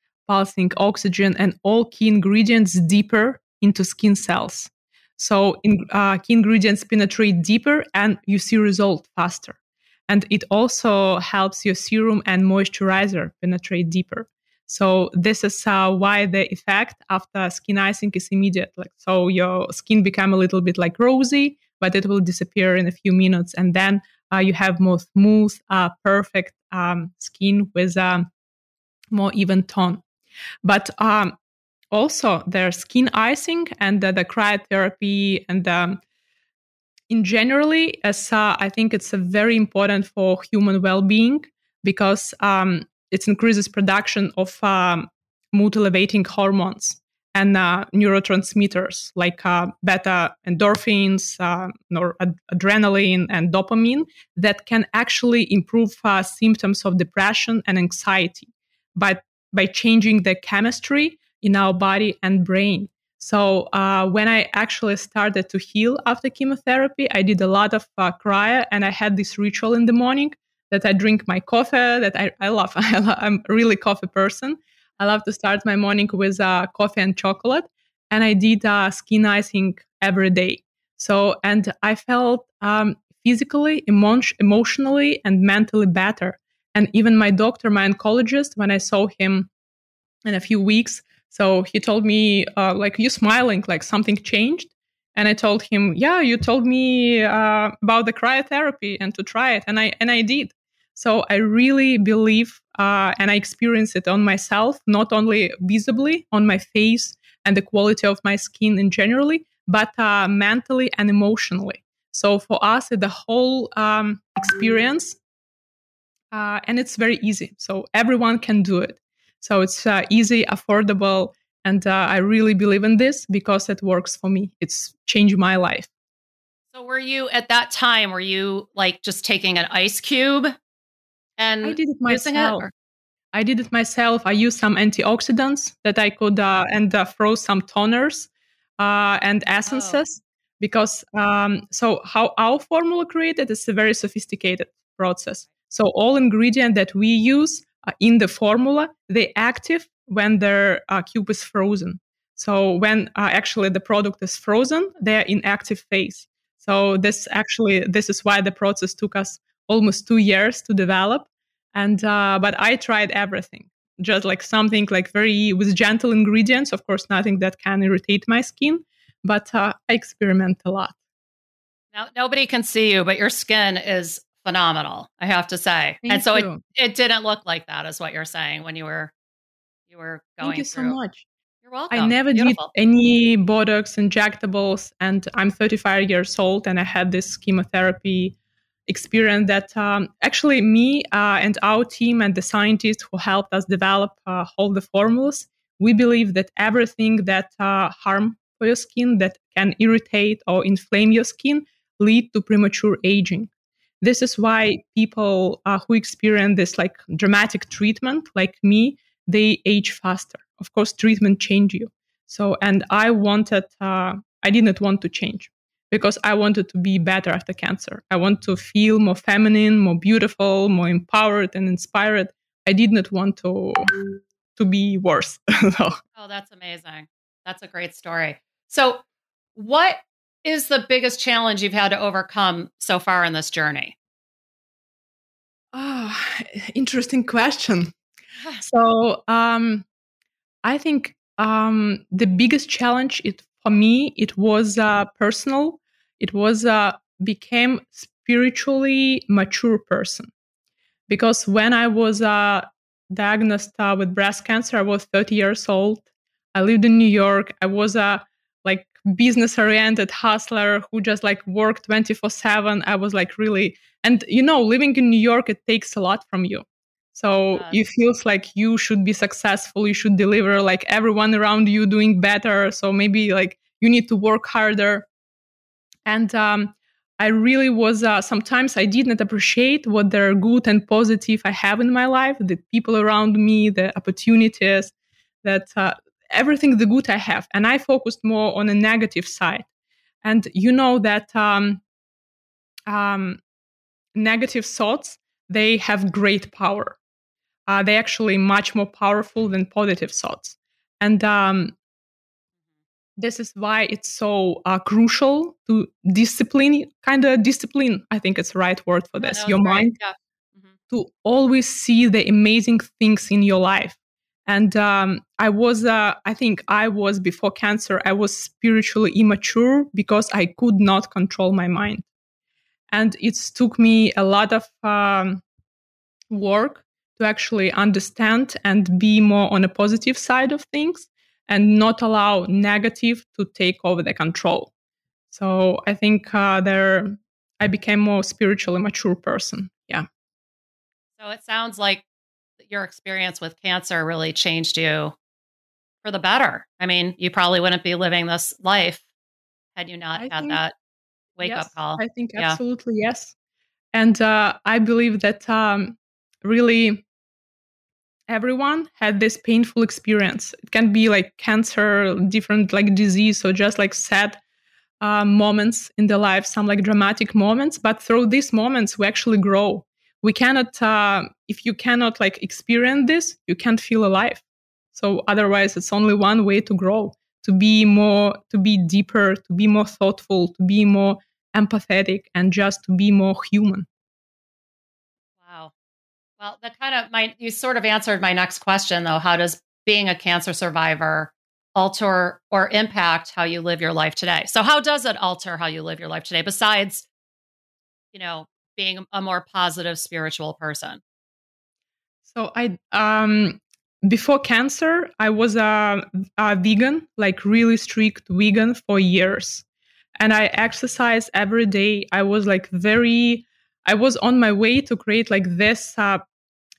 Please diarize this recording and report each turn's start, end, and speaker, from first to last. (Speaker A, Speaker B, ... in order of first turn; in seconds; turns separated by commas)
Speaker A: 0.3-28.3, Speaker A: 29.1-30.0, Speaker A: 30.6-31.4, Speaker A: 31.9-36.0, Speaker A: 37.1-89.5, Speaker A: 90.2-115.2, Speaker A: 116.3-125.9, Speaker B: 126.7-130.6, Speaker B: 131.4-132.7, Speaker A: 131.6-132.7, Speaker A: 133.3-171.0, Speaker B: 139.7-140.0, Speaker B: 171.9-179.1, Speaker A: 176.0-176.6, Speaker B: 179.9-181.0, Speaker A: 180.4-181.2, Speaker B: 181.6-182.7, Speaker A: 181.9-188.4, Speaker A: 188.9-203.5, Speaker A: 204.0-226.0, Speaker B: 226.2-229.0, Speaker B: 229.6-233.9, Speaker A: 235.7-237.9, Speaker A: 238.6-239.9, Speaker A: 240.6-250.3, Speaker A: 251.1-275.1, Speaker B: 267.5-267.8, Speaker A: 276.1-289.7, Speaker A: 290.2-291.8, Speaker A: 292.9-293.4, Speaker A: 294.1-297.0, Speaker A: 297.7-301.8, Speaker A: 303.2-309.9, Speaker B: 309.2-310.8, Speaker A: 310.9-322.1, Speaker A: 322.9-325.4, Speaker A: 326.3-334.7, Speaker A: 335.3-340.1, Speaker B: 341.2-342.0, Speaker B: 342.6-345.2, Speaker B: 346.0-349.1, Speaker B: 349.8-350.7, Speaker A: 350.2-350.6, Speaker B: 351.4-352.6, Speaker A: 351.4-353.3, Speaker A: 353.9-357.1, Speaker A: 358.3-364.4, Speaker A: 365.0-374.4, Speaker A: 374.9-383.9, Speaker B: 385.4-385.7, Speaker B: 386.4-397.1, Speaker B: 398.1-401.0, Speaker A: 402.3-409.6, Speaker A: 410.2-416.3